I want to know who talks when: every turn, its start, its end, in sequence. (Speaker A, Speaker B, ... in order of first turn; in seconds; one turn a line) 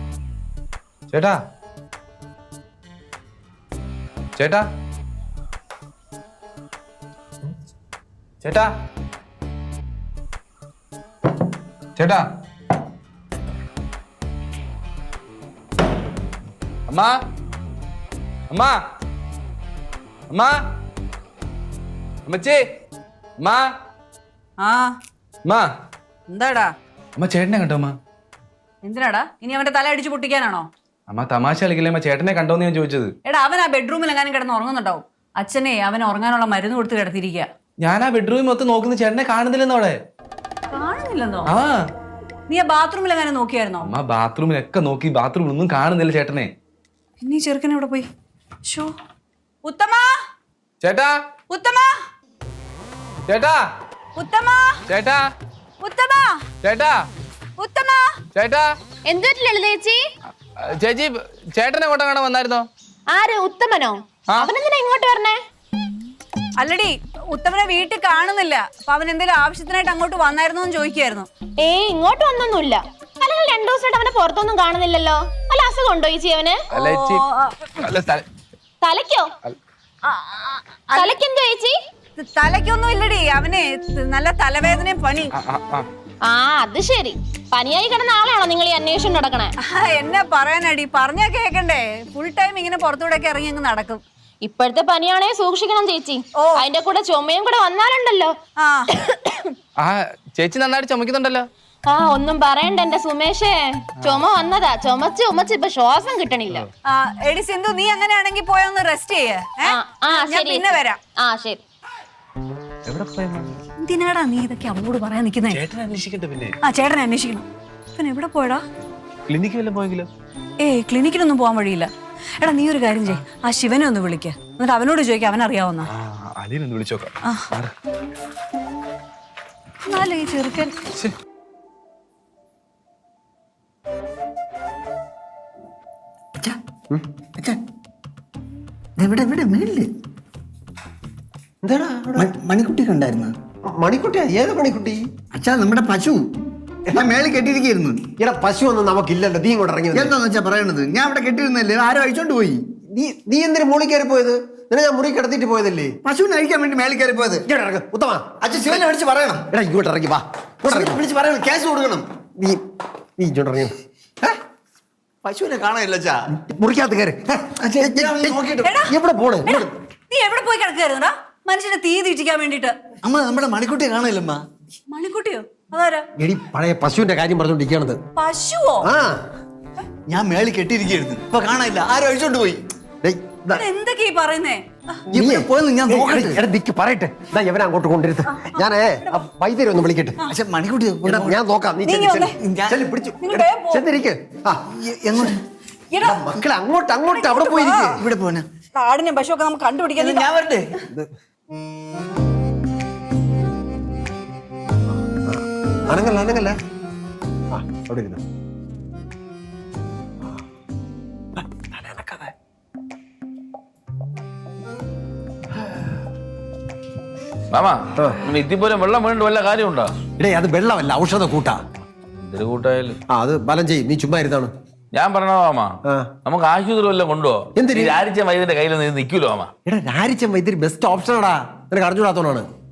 Speaker A: 1.1-1.4
Speaker A: 4.3-4.7
Speaker A: 8.4-8.7
Speaker A: 12.0-12.2
Speaker A: 16.9-17.1
Speaker A: 18.5-18.8
Speaker A: 20.3-20.6
Speaker A: 22.2-22.6
Speaker A: 23.4-23.7
Speaker B: 24.6-24.9
Speaker B: 26.3-26.7
Speaker A: 27.1-27.9
Speaker B: 28.8-30.7
Speaker A: 31.1-33.1
Speaker B: 33.2-37.5
Speaker A: 37.8-40.0
Speaker B: 40.7-41.5
Speaker A: 41.5-41.8
Speaker B: 42.5-43.9
Speaker A: 43.8-46.5
Speaker B: 47.2-48.1
Speaker B: 48.6-48.9
Speaker B: 49.6-50.2
Speaker A: 50.8-51.2
Speaker B: 51.5-52.0
Speaker A: 53.3-53.6
Speaker B: 54.1-54.8
Speaker A: 54.9-55.2
Speaker B: 55.8-56.5
Speaker A: 56.6-57.0
Speaker B: 57.6-58.2
Speaker A: 58.3-58.7
Speaker C: 59.0-60.0
Speaker A: 60.6-62.7
Speaker C: 63.1-65.4
Speaker B: 66.6-71.3
Speaker C: 71.6-76.6
Speaker A: 76.7-77.2
Speaker B: 76.8-77.7
Speaker A: 77.8-78.2
Speaker C: 78.8-79.3
Speaker B: 80.0-81.1
Speaker C: 80.9-81.7
Speaker B: 82.2-85.3
Speaker A: 85.3-85.9
Speaker C: 86.2-89.5
Speaker B: 89.6-94.0
Speaker C: 94.4-98.3
Speaker B: 96.4-96.6
Speaker B: 98.6-98.9
Speaker A: 99.8-101.5
Speaker C: 101.8-106.7
Speaker B: 106.8-111.0
Speaker C: 109.6-111.6
Speaker A: 112.9-113.5
Speaker B: 113.8-115.6
Speaker A: 115.5-116.5
Speaker B: 116.6-118.6
Speaker A: 119.3-120.1
Speaker B: 120.6-121.9
Speaker B: 122.4-125.9
Speaker A: 125.9-127.7
Speaker B: 127.2-127.5
Speaker B: 129.8-130.8
Speaker D: 139.0-139.9
Speaker E: 141.6-142.3
Speaker D: 142.2-143.3
Speaker E: 143.7-145.0
Speaker D: 145.3-146.2
Speaker D: 146.9-148.0
Speaker E: 148.2-150.1
Speaker D: 149.9-152.6
Speaker E: 152.9-156.0
Speaker D: 156.0-157.4
Speaker E: 157.4-158.8
Speaker D: 158.4-159.4
Speaker E: 159.5-161.0
Speaker D: 160.7-162.0
Speaker E: 163.2-164.3
Speaker D: 165.2-166.2
Speaker E: 166.3-169.7
Speaker D: 167.6-168.6
Speaker B: 168.6-168.9
Speaker B: 169.4-172.7
Speaker D: 173.0-174.4
Speaker B: 174.9-176.1
Speaker E: 176.2-178.0
Speaker B: 178.2-178.9
Speaker E: 178.8-179.2
Speaker D: 180.1-182.6
Speaker E: 183.0-183.6
Speaker B: 183.5-185.0
Speaker E: 185.1-190.2
Speaker D: 185.1-186.4
Speaker B: 188.3-189.2
Speaker D: 190.2-191.4
Speaker E: 191.0-194.6
Speaker B: 191.8-192.3
Speaker D: 192.4-192.8
Speaker B: 193.2-193.8
Speaker D: 194.7-195.4
Speaker B: 195.9-196.2
Speaker E: 196.0-198.1
Speaker B: 197.1-197.9
Speaker D: 197.8-198.4
Speaker B: 198.7-200.3
Speaker D: 200.0-200.7
Speaker E: 205.2-206.6
Speaker E: 207.5-208.2
Speaker E: 211.4-212.3
Speaker F: 217.5-219.9
Speaker E: 220.2-221.6
Speaker F: 222.2-223.0
Speaker E: 223.1-224.5
Speaker F: 224.9-229.5
Speaker E: 227.6-228.0
Speaker E: 229.7-232.4